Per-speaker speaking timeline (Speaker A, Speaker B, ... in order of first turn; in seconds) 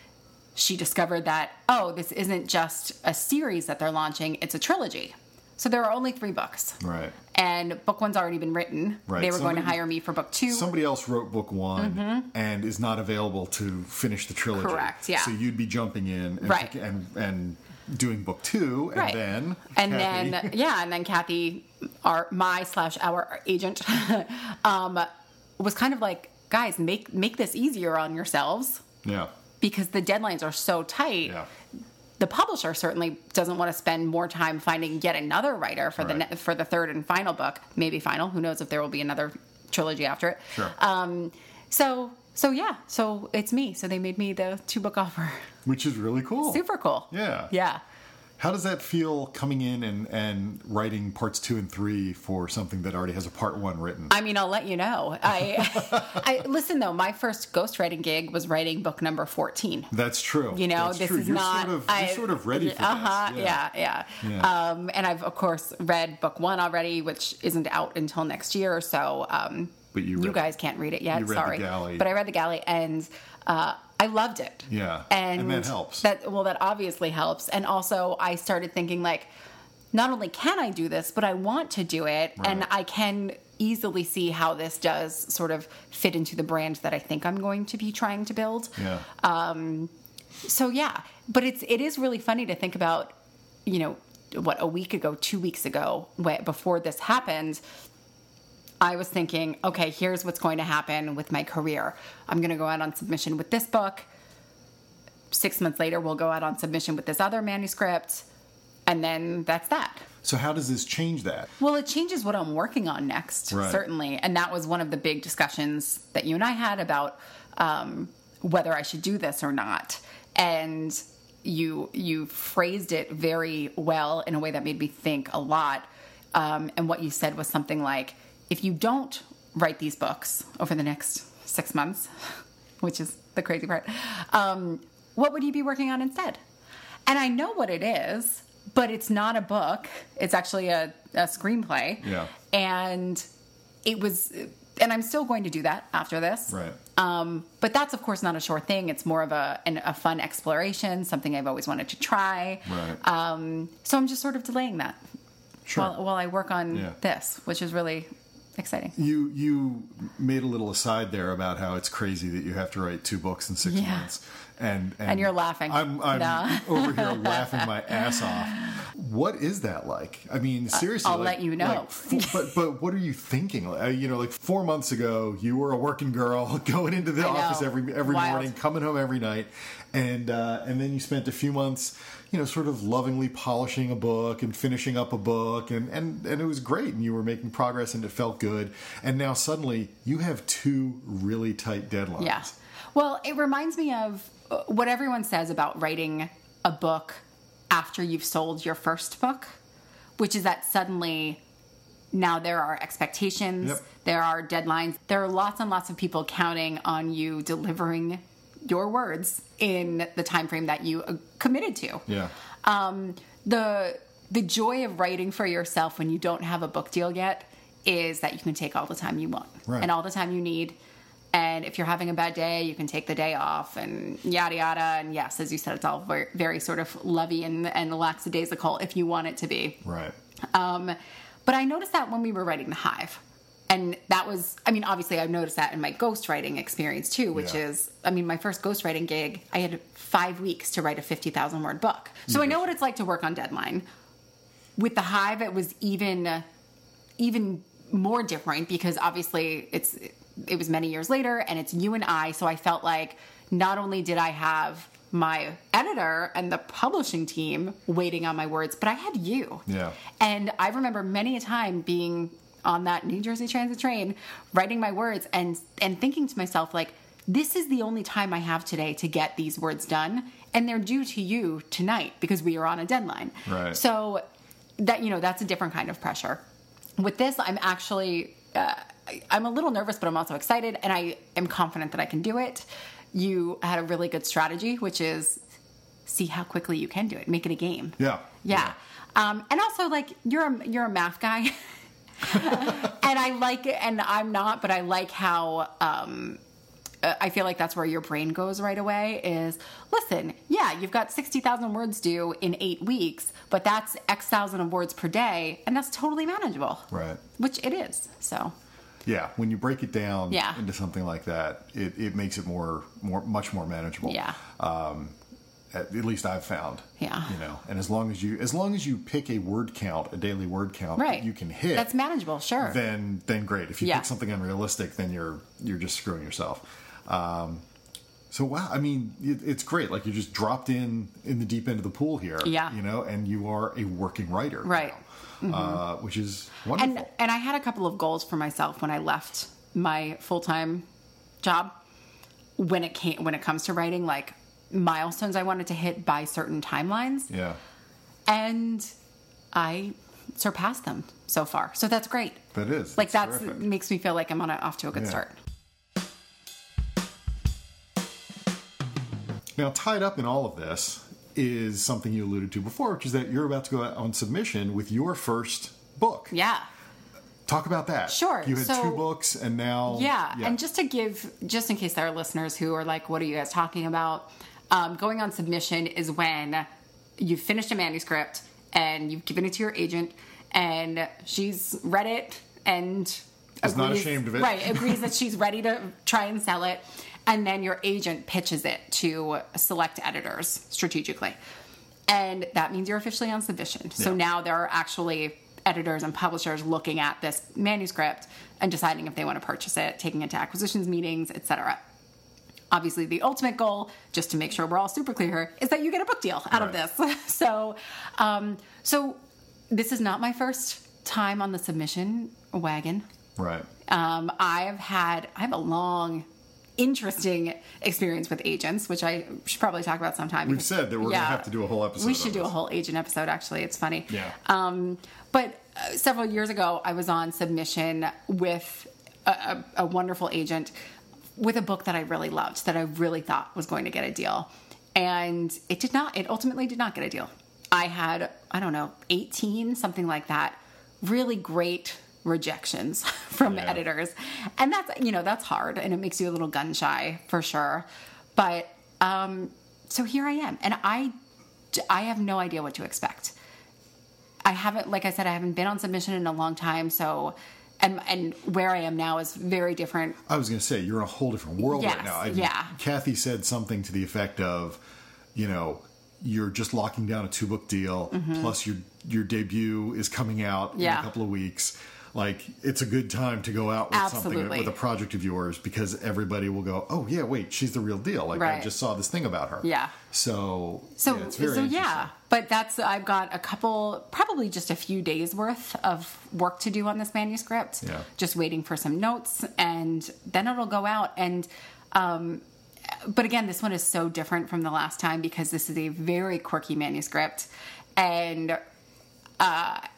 Speaker A: 0.6-6.8, 7.3-10.7, 11.8-12.3, 14.6-15.3, 16.4-16.7, 18.9-19.2, 19.8-28.8, 29.6-31.4, 32.2-45.5, 46.5-47.8, 54.1-59.9, 60.5-79.3, 79.9-89.9, 90.4-93.2, 93.7-97.6, 98.8-104.1, 105.3-108.3, 108.9-110.1, 111.6-136.4, 137.1-143.3, 143.8-155.0, 155.8-158.9, 163.6-164.1, 165.1-168.8, 170.7-172.5, 177.2-178.6, 192.2-199.6, 200.2-201.4, 202.1-212.0, 212.6-220.8, 221.3-229.8, 230.5-243.8, 244.8-246.4, 247.2-259.6, 260.2-274.2, 274.8-276.4, 277.0-285.4, 286.1-291.5, 292.2-296.4, 297.0-308.5, 310.3-310.6, 314.0-314.4, 317.0-317.3, 321.0-322.8, 323.8-324.1, 332.4-332.8, 334.6-335.8, 336.8-340.9, 341.4-341.7, 342.6-347.3, 348.3-348.9, 349.5-352.4, 353.0-355.4, 366.3-366.7, 368.1-369.1, 369.9-376.7, 377.2-391.4, 392.1-401.8, 402.7-409.2, 409.7-413.1, 413.9-416.3, 416.8-430.7, 431.4-451.1, 451.7-453.4, 454.4-460.2, 461.6-462.7, 468.1-468.5, 470.8-471.1, 473.9-474.8, 478.3-478.7, 479.6-479.9, 481.0-498.6, 499.4-499.8
Speaker B: 6.8-7.2, 9.1-9.8, 10.5-20.6, 29.0-29.3, 36.0-36.2, 45.6-47.5, 48.4-54.1, 55.4-56.2, 59.9-63.6, 64.2-64.5, 69.9-70.5, 71.1-72.1, 74.7-76.1, 82.4-82.7, 88.8-89.1, 110.2-111.5, 113.5-113.8, 142.0-142.3, 146.5-146.8, 152.7-153.0, 155.7-155.9, 159.0-192.5, 212.1-212.3, 229.8-230.2, 237.3-237.6, 242.3-242.7, 259.7-260.0, 273.5-273.8, 288.0-288.8, 306.9-307.2, 309.1-315.2, 315.7-321.9, 322.6-327.6, 328.3-337.1, 347.3-347.6, 352.5-353.6, 354.9-355.2, 359.6-366.3, 367.5-370.6, 383.6-385.1, 413.4-413.7, 420.4-422.5, 424.1-424.4, 443.4-443.8, 460.3-464.8, 465.4-482.1, 487.8-488.1